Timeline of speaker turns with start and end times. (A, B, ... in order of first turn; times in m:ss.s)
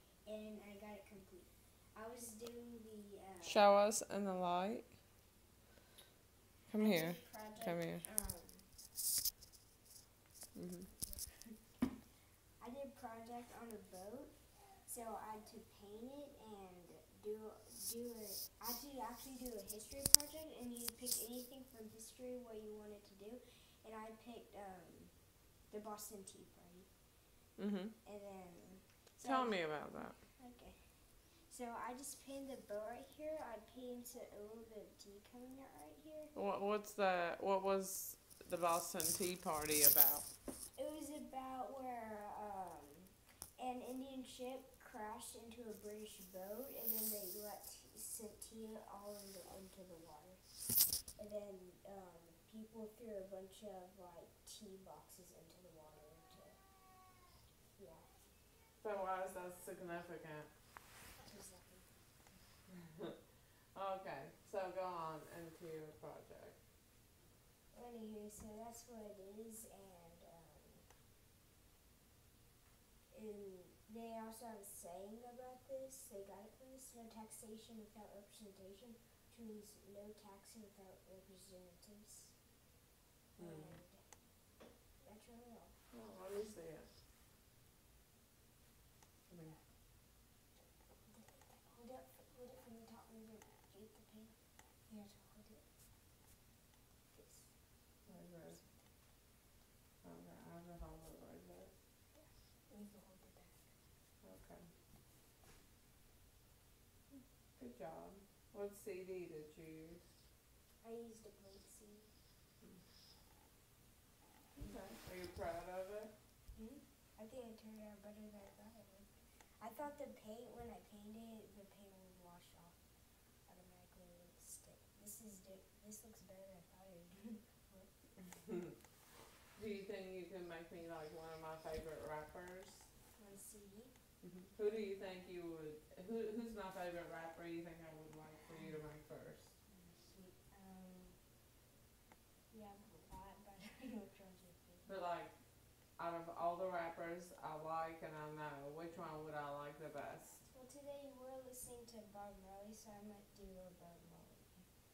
0:00.2-0:03.6 A
0:03.4-0:05.0 B
0:06.7-0:08.0 B
0:06.7-0:08.7 A
0:10.5-0:10.9 B
0:11.0-0:11.6 A
0:12.6-0:26.9 A
0:27.6-0:28.0 B
0:28.0-0:36.3 A
0:29.2-0:30.2 B
0:36.3-0:40.3 B
0:40.8-0:50.4 A
0:51.1-0:56.6 A
0:57.8-0:58.1 A
0:58.8-1:00.5 B
1:01.2-1:02.0 A
1:03.7-1:06.6 B
1:07.7-1:10.9 A
1:13.1-1:22.4 A
1:23.4-1:24.2 A
1:23.4-1:23.8 B
1:25.0-1:25.8 A
1:25.9-1:26.9 B
1:29.3-1:29.6 B
1:29.3-1:29.6 A
1:31.0-1:35.7 A
1:37.1-1:37.6 A
1:38.1-1:38.6 B
1:38.4-1:38.9 A
1:40.0-1:41.7 B
1:42.1-1:43.7 A
1:44.2-1:44.7 B
1:47.6-1:50.0 B
1:50.8-1:52.1 A
1:54.6-1:56.1 B
1:56.6-2:02.8 A
2:03.5-2:07.9 A
2:09.6-2:12.9 B
2:13.2-2:13.9 A
2:14.2-2:19.5 B
2:19.7-2:21.2 A
2:22.5-2:24.9 A
2:24.9-2:25.4 B
2:25.9-2:30.4 B
2:30.5-2:34.7 A